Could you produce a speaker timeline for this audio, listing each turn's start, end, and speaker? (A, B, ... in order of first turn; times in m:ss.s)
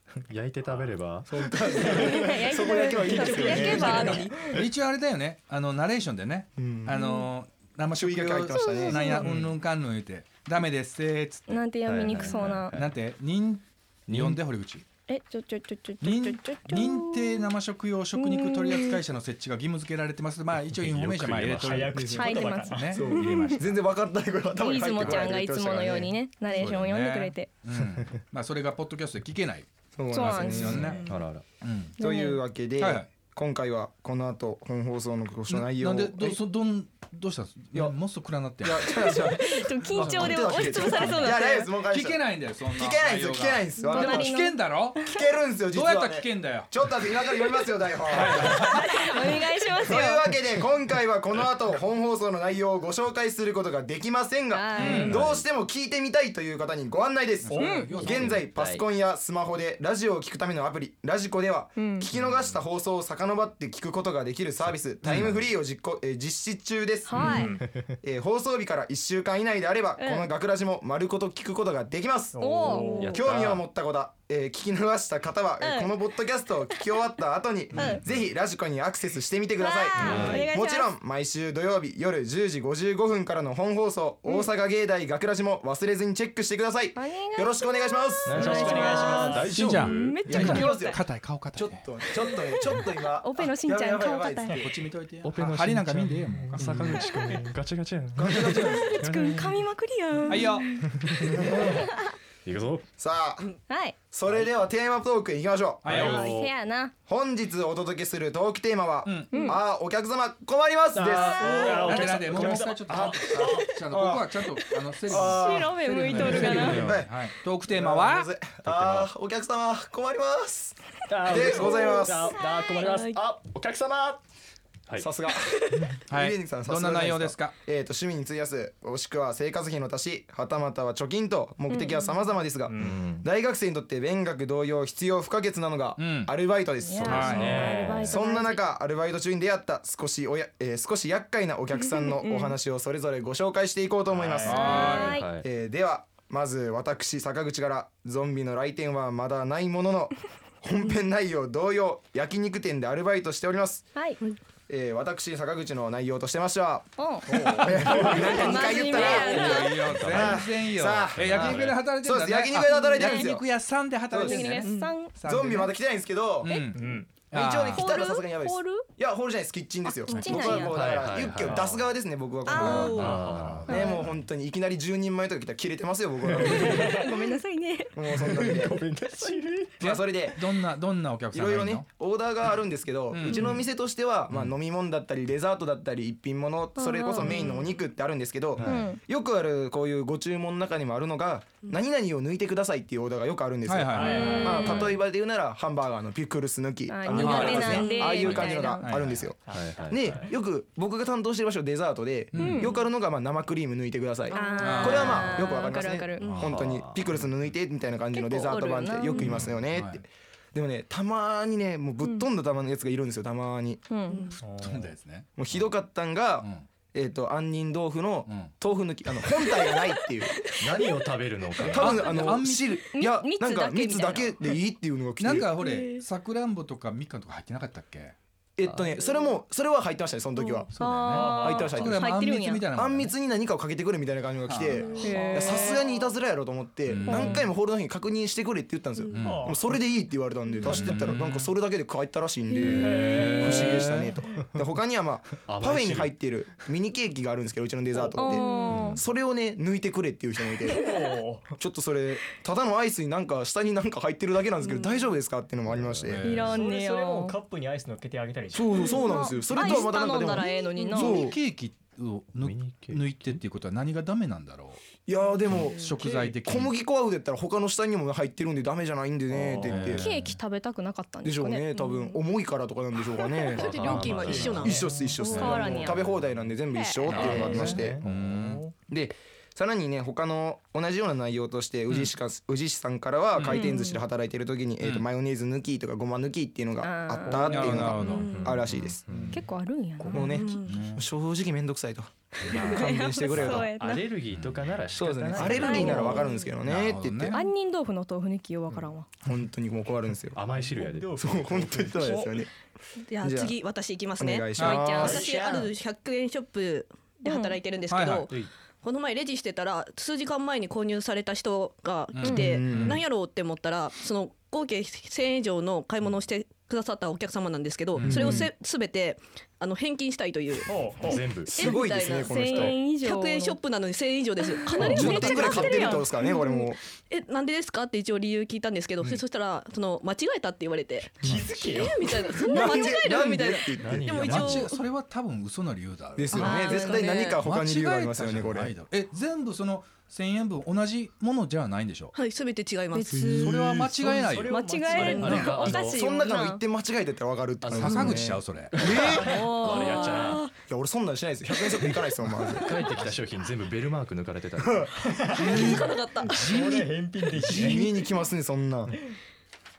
0:00.2-0:01.3 A
0:01.3-0:04.5 B
0:01.7-0:04.4 C
0:01.9-0:02.2 D
0:02.7-0:04.3 D
0:03.6-0:11.6 E
0:06.6-0:07.2 B
0:07.9-0:09.2 B
0:08.5-0:09.3 C
0:11.5-0:12.8 C
0:11.8-0:12.9 A
0:12.7-0:14.8 E
0:14.1-0:14.4 A
0:15.1-0:17.5 C
0:16.0-0:23.8 E
0:18.1-0:19.0 C
0:20.8-0:21.9 A
0:21.5-0:22.9 D
0:21.9-0:22.3 B
0:22.1-0:23.6 C
0:22.9-0:26.1 B
0:24.6-0:27.5 C
0:26.5-0:29.7 E
0:30.0-0:31.0 B
0:30.1-0:30.9 C
0:30.2-0:31.1 E
0:30.8-0:31.2 F
0:31.0-0:31.4 A
0:31.6-0:32.0 E
0:32.0-0:32.4 C
0:32.0-0:36.4 B
0:32.8-0:33.1 E
0:35.5-0:39.2 E
0:38.6-0:44.4 B
0:38.9-0:41.7 C
0:40.0-0:40.5 E
0:41.9-0:45.1 E
0:43.9-0:45.2 C
0:45.0-0:48.7 B
0:45.7-0:46.7 E
0:48.1-0:49.1 E
0:48.4-0:50.2 C
0:49.8-1:07.2 B
0:54.5-0:55.2 C
0:54.8-0:55.2 E
0:55.1-0:55.4 A
0:57.4-0:58.5 E
0:57.5-0:58.0 D
0:57.5-0:57.9 C
0:58.0-0:58.8 A
1:01.8-1:02.1 C
1:05.0-1:05.4 A
1:07.1-1:07.5 C
1:07.2-1:07.8 A
1:07.2-1:07.6 D
1:08.0-1:29.3 B
1:10.0-1:10.3 C
1:12.3-1:13.2 D
1:12.4-1:13.1 C
1:12.8-1:13.2 F
1:13.0-1:13.6 A
1:15.6-1:15.9 C
1:17.7-1:18.0 C
1:19.6-1:20.9 C
1:20.0-1:20.4 D
1:20.0-1:20.5 A
1:26.9-1:31.0 C
1:28.3-1:30.3 A
1:28.3-1:29.6 D
1:29.5-1:31.8 E
1:30.2-1:31.0 B
1:31.5-1:34.8 B
1:32.3-1:34.5 C
1:34.5-1:37.0 E
1:35.2-1:39.6 A
1:36.6-1:36.9 B
1:37.0-1:37.4 C
1:38.2-1:38.9 B
1:38.2-1:38.9 E
1:38.5-1:42.1 C
1:40.3-1:40.8 E
1:40.8-1:41.9 A
1:42.4-1:42.8 A
1:43.0-1:43.5 B
1:43.7-1:44.0 C
1:44.1-1:46.1 B
1:45.8-1:46.3 E
1:45.9-1:46.5 A
1:45.9-1:46.9 C
1:47.1-1:54.2 B
1:49.0-1:49.4 E
1:49.3-1:49.6 C
1:50.9-1:53.7 D
1:51.4-1:51.9 C
1:51.6-1:58.3 E
1:55.1-2:02.3 B
1:55.1-1:56.9 C
1:56.2-1:56.9 D
1:58.6-1:59.1 A
2:01.1-2:03.0 D
2:01.1-2:04.2 A
2:01.6-2:02.1 F
2:02.5-2:03.2 C
2:05.0-2:33.9 B
2:06.1-2:07.5 E
2:11.7-2:12.1 C
2:12.7-2:13.0 D
2:12.8-2:13.2 A
2:16.0-2:16.3 E
2:16.8-2:18.6 C
2:17.0-2:17.8 E
2:17.1-2:18.2 A
2:22.0-2:22.6 C
2:24.1-2:24.9 D
2:24.4-2:25.2 E
2:24.5-2:25.3 C
2:24.8-2:25.4 A
2:34.7-2:43.4 B
2:37.0-2:39.9 C
2:37.3-2:38.6 D
2:37.4-2:45.7 E
2:39.8-2:40.5 A
2:41.2-2:41.8 A
2:42.7-2:43.3 C
2:44.1-2:44.5 B
2:44.1-2:45.1 C
2:44.6-2:44.9 F
2:45.2-2:46.6 B
2:46.4-2:47.9 E
2:46.7-2:47.1 D
2:47.3-2:57.0 B
2:47.7-2:48.9 C
2:49.8-2:51.1 C
2:50.4-2:51.7 A
2:51.4-2:51.8 D
2:52.4-2:53.1 C
2:52.6-2:53.1 F
2:52.8-2:53.8 A
2:53.0-2:53.7 D
2:53.0-2:53.8 E
2:53.7-2:54.0 C
2:56.4-2:58.0 C
2:56.4-2:57.0 D
2:57.9-2:58.8 B
2:58.3-2:59.8 A
2:59.8-3:00.4 B
2:59.8-3:01.8 E
3:01.3-3:33.9 B
3:03.1-3:03.6 E
3:06.8-3:07.6 C
3:07.2-3:07.6 F
3:08.6-3:08.9 A
3:08.6-3:09.0 C
3:13.6-3:14.4 E
3:13.9-3:14.9 D
3:14.0-3:15.0 C
3:16.9-3:18.9 C
3:17.1-3:19.4 E
3:17.2-3:18.2 F
3:19.4-3:20.3 D
3:19.5-3:20.3 A
3:22.3-3:22.7 E
3:22.4-3:22.7 C
3:24.3-3:24.9 F
3:24.3-3:26.3 C
3:24.6-3:25.4 E
3:26.2-3:26.6 E
3:26.3-3:27.1 A
3:28.1-3:29.3 C
3:29.1-3:29.4 F
3:29.2-3:30.0 E
3:32.0-3:32.3 C
3:33.9-3:34.3 C
3:34.1-3:34.4 F
3:34.4-3:34.9 D
3:34.6-3:35.6 E
3:35.4-3:40.4 B
3:36.4-3:36.7 E
3:38.3-3:38.5 E
3:39.4-3:40.9 F
3:40.6-3:42.3 A
3:41.7-3:45.5 B
3:41.7-3:42.8 E
3:42.9-3:44.4 C
3:45.2-3:48.1 E
3:45.5-3:46.0 F
3:48.6-3:50.7 B
3:48.6-3:48.9 A
3:50.4-3:50.7 F
3:50.7-3:53.1 E
3:50.8-3:52.6 C
3:51.1-3:51.8 D
3:51.2-3:52.1 B
3:52.7-4:10.8 B
3:54.5-3:54.8 E
3:54.7-3:56.1 F
3:55.0-3:55.8 C
3:55.0-3:55.6 D
3:56.9-3:57.4 E
3:57.1-3:57.4 C
3:59.0-3:59.4 F
3:59.1-3:59.6 E
3:59.2-3:59.7 D
4:00.6-4:00.8 F
4:00.7-4:01.5 E
4:02.7-4:04.1 D
4:02.8-4:04.0 E
4:05.4-4:06.1 A
4:07.9-4:08.4 D
4:08.2-4:09.0 C
4:08.4-4:08.7 F
4:08.7-4:09.0 A
4:10.7-4:11.4 D
4:11.6-4:16.2 B
4:14.6-4:15.1 F
4:15.7-4:16.6 A
4:16.0-4:16.5 E
4:16.2-4:17.4 C
4:16.4-4:18.8 D
4:18.5-4:21.4 B
4:18.7-4:21.2 F
4:18.8-4:21.3 C
4:20.9-4:24.8 E
4:22.4-4:23.4 A
4:25.0-4:30.0 B
4:25.5-4:26.3 F
4:25.5-4:26.7 E
4:29.3-4:29.9 D
4:29.6-4:30.2 E
4:29.8-4:31.7 C
4:30.0-4:30.4 A
4:31.2-4:38.0 B
4:31.7-4:32.2 F
4:33.2-4:35.5 F
4:33.5-4:36.2 A
4:35.2-4:36.0 C
4:36.7-4:37.4 C
4:37.1-4:38.6 A
4:37.1-4:38.7 D
4:38.0-4:38.7 E
4:38.8-4:49.0 B
4:43.3-4:43.7 E
4:43.5-4:44.0 C
4:43.6-4:44.0 F
4:46.8-4:47.6 C
4:47.3-4:48.1 D
4:47.3-4:49.4 E
4:47.9-4:48.6 F
4:48.1-4:49.4 A
4:49.3-4:50.4 C
4:50.0-4:50.3 D
4:50.1-4:53.7 B
4:50.1-4:50.9 F
4:50.7-4:51.0 E
4:52.5-4:56.3 A
4:52.5-4:54.1 C
4:54.3-4:54.8 E
4:55.0-4:57.4 B
4:55.6-4:56.6 F
4:55.6-4:56.2 C
4:56.6-4:57.4 E
4:57.3-4:59.1 C
4:59.2-5:00.4 B
5:00.3-5:01.3 A
5:00.5-5:02.3 D
5:01.2-5:02.5 B
5:03.1-5:20.7 F
5:03.2-5:03.5 B
5:04.2-5:05.2 B
5:04.6-5:04.9 E
5:04.8-5:05.2 C
5:05.0-5:05.7 A
5:07.2-5:07.6 C
5:07.9-5:08.3 E
5:12.1-5:13.0 E
5:12.2-5:13.0 B
5:17.9-5:18.4 E
5:18.0-5:18.5 B
5:20.6-5:21.2 D
5:21.0-5:21.8 A
5:21.5-5:34.8 F
5:21.5-5:22.8 B
5:22.2-5:23.6 C
5:24.4-5:26.1 C
5:24.8-5:26.8 B
5:31.2-5:32.0 D
5:31.2-5:31.6 A
5:32.4-5:34.4 B
5:32.5-5:33.0 C
5:33.8-5:34.7 A
5:34.2-5:36.7 E
5:36.2-5:38.7 B
5:36.3-5:37.4 F
5:36.3-5:37.2 C
5:37.4-5:42.1 E
5:42.1-5:43.8 F
5:42.9-5:43.2 C
5:43.1-5:43.9 B
5:43.4-5:44.6 E
5:43.9-5:45.8 D
5:44.5-5:46.6 C
5:44.9-5:46.0 A
5:45.0-5:45.9 F
5:45.7-5:49.3 B
5:47.6-5:50.4 A
5:47.7-5:49.3 E
5:49.2-5:50.5 C
5:49.2-5:50.4 F
5:50.6-5:52.8 B
5:52.6-5:55.2 A
5:52.9-5:53.2 E
5:54.6-5:55.8 B
5:55.0-5:55.7 D
5:55.4-5:56.6 F
5:55.4-5:55.8 E
5:56.3-5:57.9 D
5:56.4-5:56.8 E
5:57.4-5:57.9 E
5:57.5-5:58.9 B